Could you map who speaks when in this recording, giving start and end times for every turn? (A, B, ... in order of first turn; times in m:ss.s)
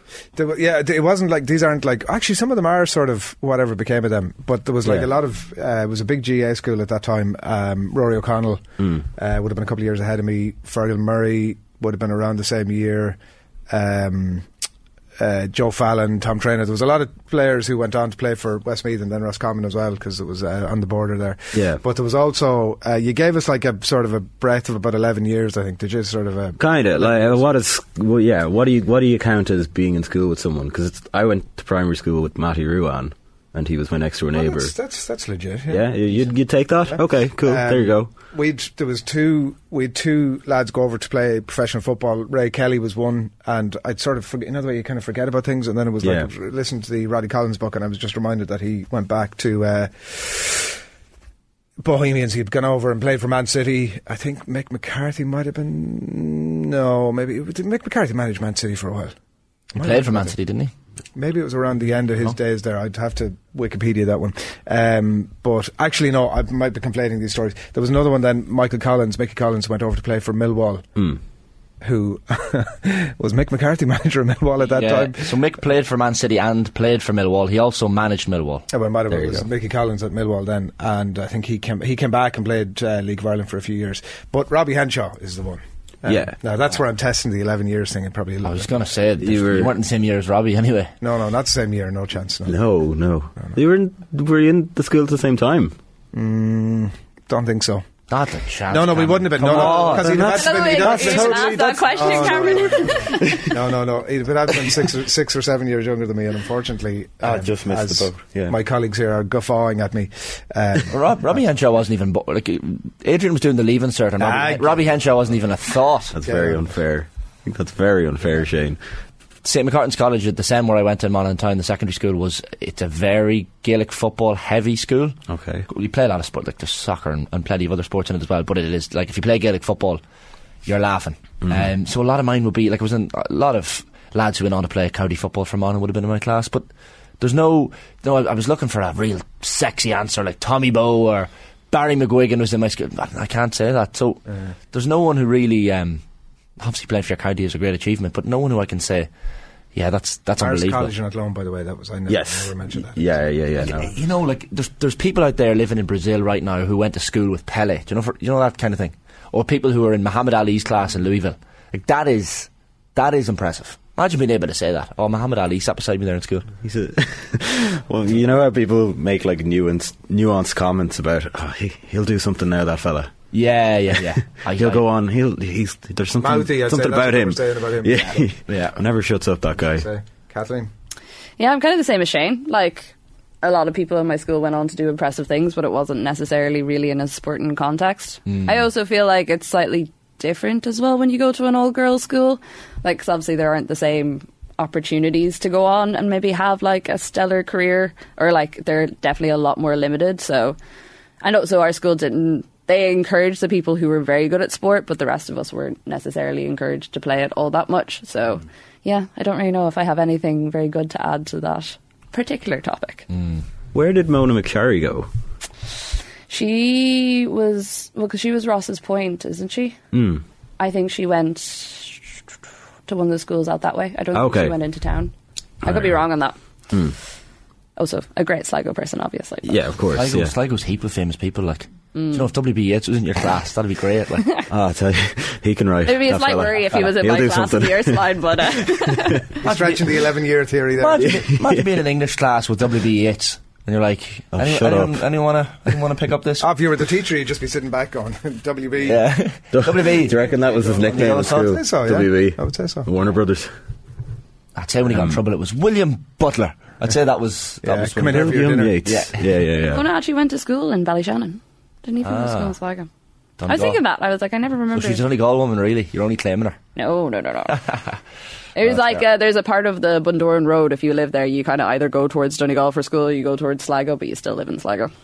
0:00.3-0:08.6 A
0:09.2-0:13.2 A
0:13.7-0:14.5 A
0:15.2-0:27.5 A
0:21.5-0:21.8 B
0:26.6-0:34.7 B
0:34.3-0:36.4 A
0:35.7-0:38.1 B
0:36.9-0:50.8 A
0:46.0-0:46.3 B
0:51.8-0:59.1 A
0:59.7-1:00.4 A
0:59.8-1:00.7 C
1:01.2-1:10.8 A
1:11.8-1:15.4 A
1:14.6-1:18.7 C
1:18.7-1:28.7 A
1:19.1-1:19.4 B
1:26.1-1:26.4 B
1:28.4-1:30.9 C
1:29.2-1:29.7 B
1:31.0-1:32.6 A
1:32.5-1:35.8 B
1:36.1-1:37.8 A
1:38.1-1:40.4 C
1:38.7-1:50.9 A
1:39.5-1:41.5 B
1:40.3-1:43.4 D
1:47.2-1:48.6 B
1:50.9-1:56.1 C
1:54.2-1:54.9 A
1:56.1-1:58.8 B
1:56.2-1:56.7 A
1:59.4-2:10.0 C
2:05.3-2:05.6 B
2:10.6-2:16.7 C
2:11.4-2:11.7 B
2:17.2-2:26.0 C
2:26.6-2:29.1 C
2:29.7-2:30.9 C
2:30.4-2:33.2 A
2:32.1-2:33.9 B
2:33.6-2:46.5 C
2:46.6-2:53.1 B
2:53.3-2:54.8 C
2:54.5-2:59.9 B
2:56.2-2:58.2 A
2:58.0-2:58.8 C
2:59.8-3:00.7 A
3:01.4-3:20.6 D
3:21.2-3:33.1 D
3:33.7-3:35.1 B
3:36.3-3:39.8 D
3:39.9-3:40.2 B
3:40.6-3:42.2 D
3:42.9-3:45.1 D
3:44.1-3:44.6 B
3:45.6-3:46.0 B
3:45.6-3:46.4 D
3:47.8-3:49.6 D
3:49.4-3:50.3 B
3:49.9-3:54.4 C
3:52.0-3:52.2 D
3:54.5-3:58.1 B
3:55.8-3:59.3 D
3:59.4-4:01.2 A
3:59.4-4:00.0 C
4:00.8-4:06.5 C
4:01.1-4:01.7 B
4:04.3-4:05.0 B
4:06.4-4:09.1 A
4:08.8-4:10.2 C
4:09.5-4:13.5 B
4:10.3-4:12.9 A
4:10.9-4:11.5 C
4:14.6-4:19.4 C
4:14.9-4:15.2 B
4:17.6-4:18.8 A
4:18.2-4:19.9 B
4:19.6-4:22.9 D
4:22.0-4:22.6 C
4:23.4-4:23.8 C
4:23.5-4:25.0 D
4:24.7-4:26.6 C
4:26.8-4:27.7 D
4:28.6-4:34.9 D
4:28.7-4:29.0 C